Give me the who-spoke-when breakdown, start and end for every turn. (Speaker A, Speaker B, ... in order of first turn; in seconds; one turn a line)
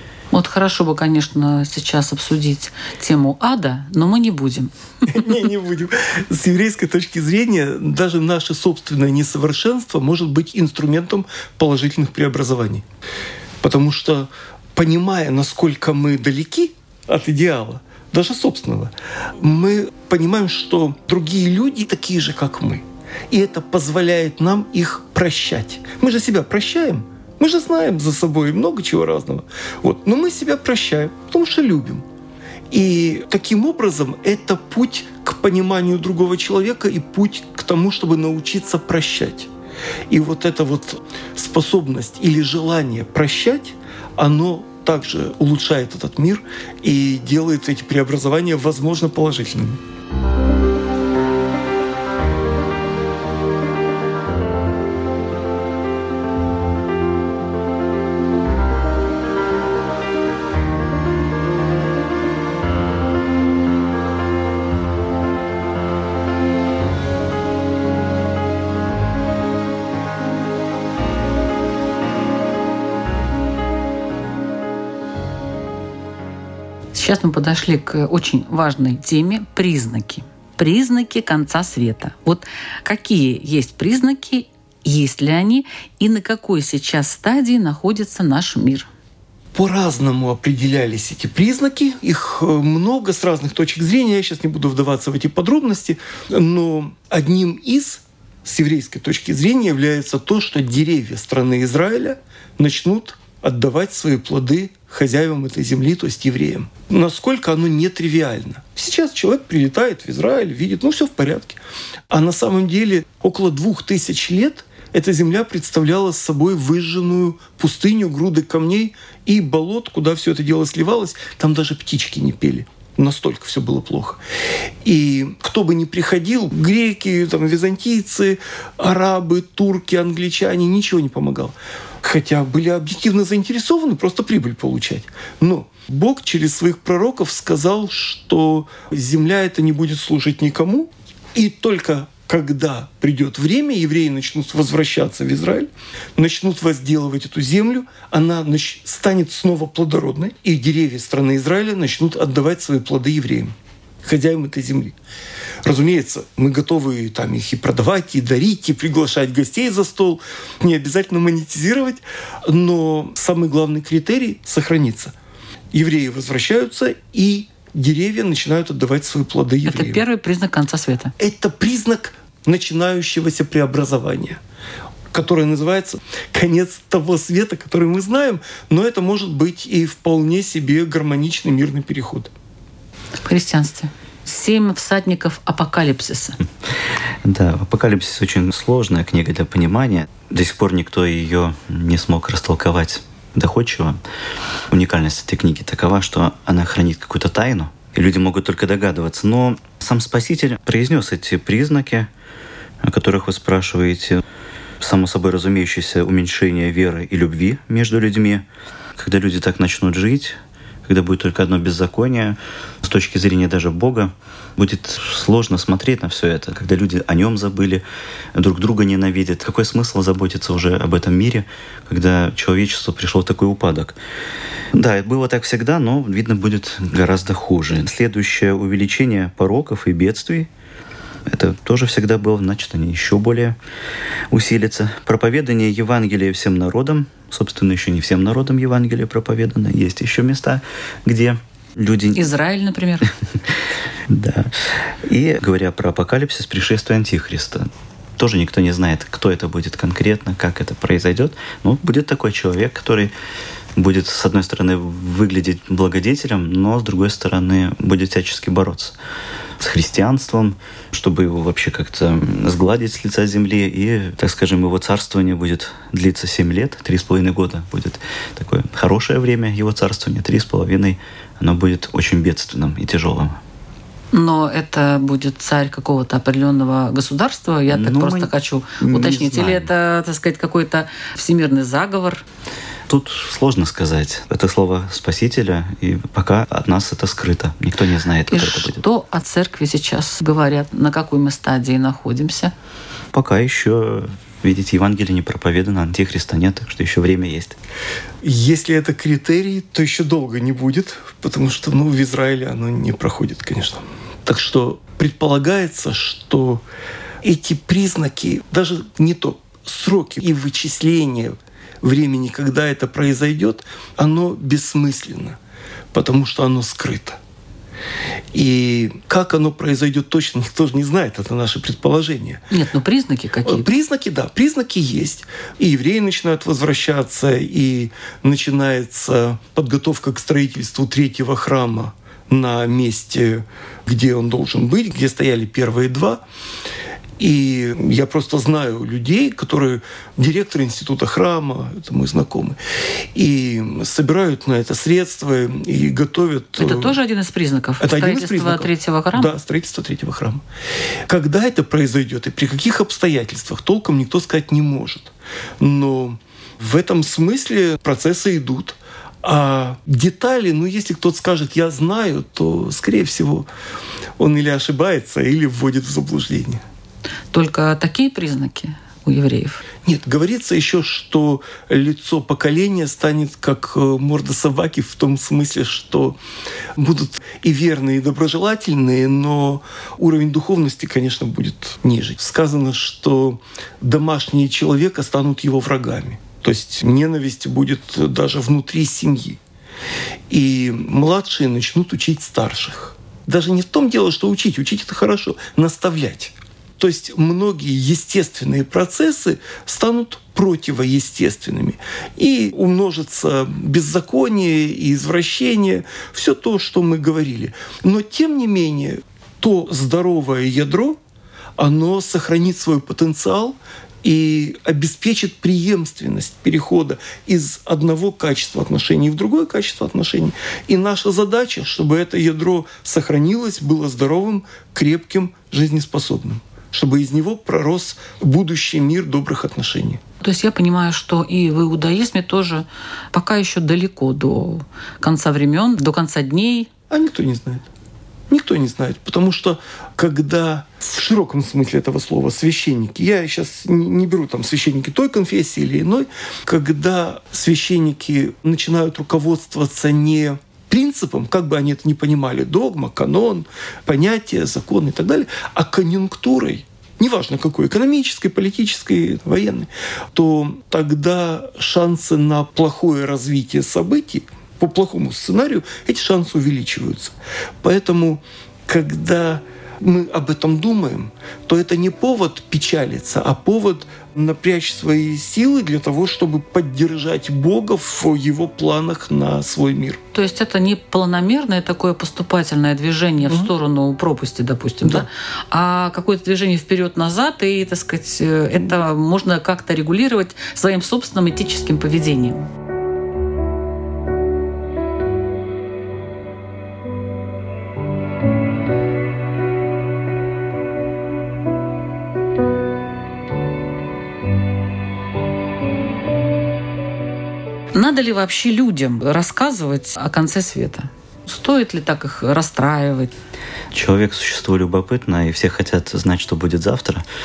Speaker A: 0.3-5.4
Speaker B: 5.1-12.8
Speaker B: 13.6-32.0
Speaker B: 32.7-39.5
Speaker B: 40.1-49.8
Speaker A: 76.9-88.9
Speaker B: 89.5-124.2
Speaker B: 124.8-154.9
Speaker B: 155.6-165.1
Speaker B: 165.7-170.0
Speaker A: 169.7-171.1
Speaker B: 171.2-174.4
Speaker B: 175.1-182.3
Speaker A: 183.2-186.4
Speaker C: 187.2-194.0
Speaker C: 194.7-202.1
Speaker C: 202.8-204.2
Speaker C: 204.8-208.4
Speaker C: 209.0-217.8
Speaker C: 218.3-223.9
Speaker C: 224.7-230.5
Speaker C: 231.3-233.6
Speaker C: 234.3-242.2
Speaker A: 242.1-243.1
Speaker C: 244.1-244.5
Speaker C: 245.0-253.1
Speaker C: 253.8-258.9
Speaker C: 259.6-273.4
Speaker A: 274.1-282.2
Speaker C: 277.7-279.7
Speaker C: 282.9-288.8
Speaker A: 288.3-292.5
Speaker C: 293.1-297.6
Speaker B: 298.2-306.6
Speaker B: 307.2-315.4
Speaker B: 315.9-317.2
Speaker B: 318.3-322.4
Speaker A: 322.5-323.7
Speaker B: 323.4-336.2
Speaker B: 337.2-347.0
Speaker A: 346.6-349.3
Speaker B: 347.8-350.4
Speaker B: 351.1-363.5
Speaker B: 364.2-366.6
Speaker A: 367.3-369.6
Speaker B: 369.9-376.2
Speaker B: 376.7-389.4
Speaker B: 390.3-411.0
Speaker B: 411.6-430.0
Speaker A: 430.2-436.7
Speaker B: 436.9-437.7
Speaker B: 438.3-480.0
Speaker A: 480.1-492.5
Speaker B: 483.2-483.5
Speaker A: 507.7-513.1
Speaker C: 513.7-517.0